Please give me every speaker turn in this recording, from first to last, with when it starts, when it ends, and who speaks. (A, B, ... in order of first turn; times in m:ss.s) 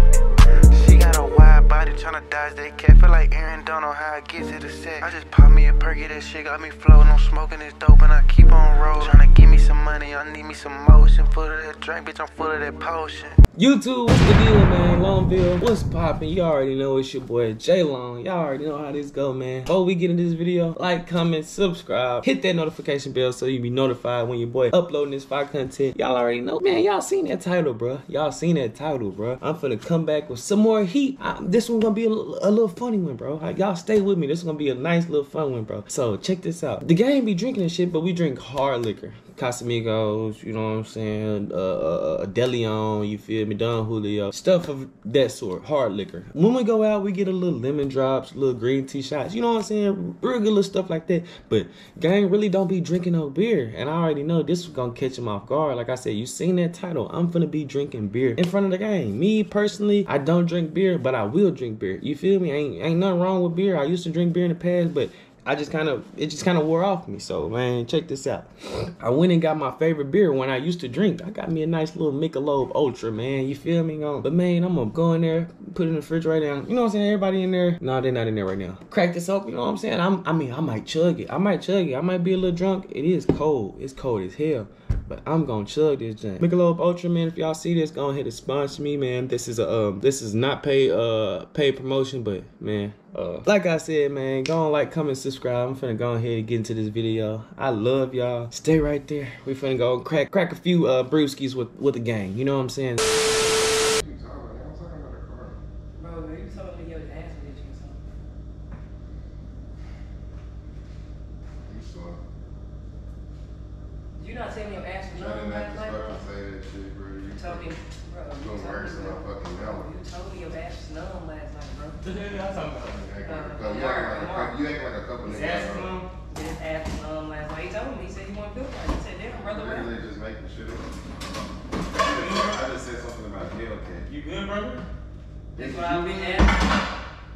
0:00.7-0:13.4 A
0:13.6-1:43.0 B
1:43.8-1:45.6 C
1:46.0-1:48.0 D
1:51.7-1:52.2 C
1:54.2-1:56.2 D
1:55.1-1:57.7 C
1:57.3-2:02.0 D
1:58.4-1:59.9 C
2:02.0-2:03.1 B
2:03.0-2:05.9 C
2:03.2-2:04.6 D
2:05.2-2:06.1 B
2:06.3-2:09.9 D
2:09.3-2:10.9 C
2:12.0-2:14.1 C
2:12.0-2:12.6 B
2:14.1-2:14.8 B
2:15.6-2:16.5 C
2:15.6-2:16.7 D